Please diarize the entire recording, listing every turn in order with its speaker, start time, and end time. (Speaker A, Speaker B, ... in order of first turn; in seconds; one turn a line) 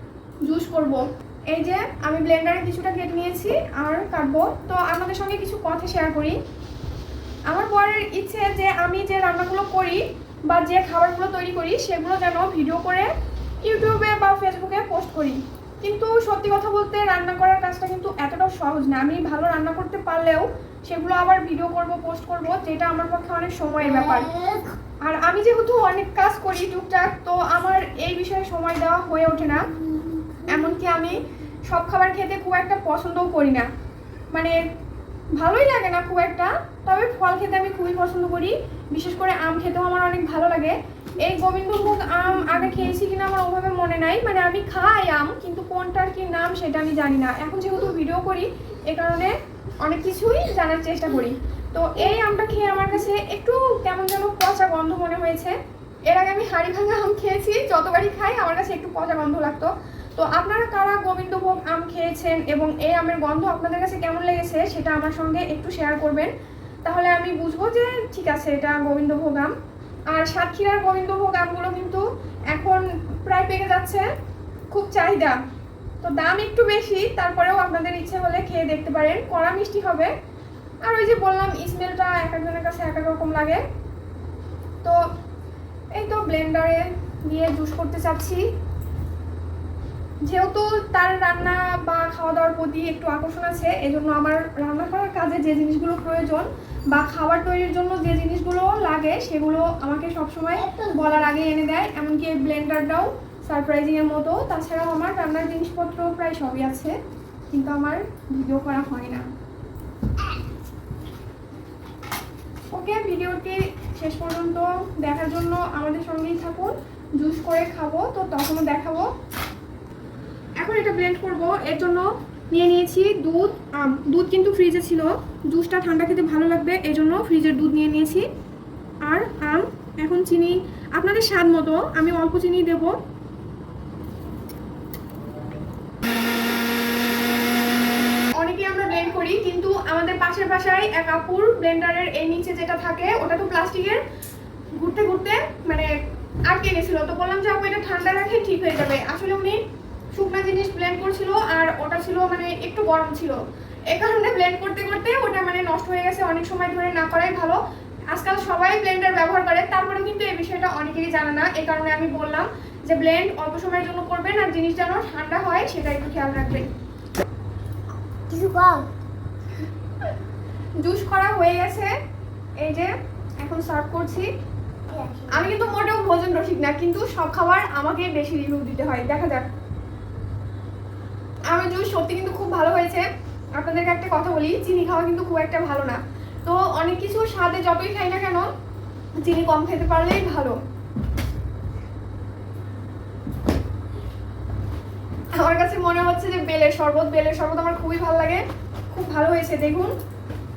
Speaker A: 0.4-6.4
Speaker A: 7.5-13.1
Speaker A: 13.6-24.4
Speaker B: 24.1-24.6
Speaker A: 25.0-29.7
Speaker A: 30.4-33.7
Speaker A: 35.4-55.5
Speaker A: 56.1-66.3
Speaker A: 66.8-69.5
Speaker A: 70.1-74.1
Speaker A: 74.7-75.4
Speaker A: 76.0-80.1
Speaker A: 80.8-83.6
Speaker A: 85.9-88.5
Speaker A: 90.2-106.9
Speaker B: 100.6-101.2
Speaker A: 107.5-109.2
Speaker A: 112.7-119.1
Speaker A: 120.6-128.3
Speaker A: 129.1-133.0
Speaker A: 138.4-144.0
Speaker A: 144.7-145.9
Speaker A: 146.5-149.6
Speaker A: 150.1-153.4
Speaker A: 153.9-166.7
Speaker B: 168.3-168.8
Speaker A: 170.8-171.9
Speaker A: 172.6-174.3
Speaker B: 174.9-175.6
Speaker A: 175.3-179.5
Speaker A: 181.5-188.5
Speaker A: 189.2-190.6
Speaker A: 195.3-199.9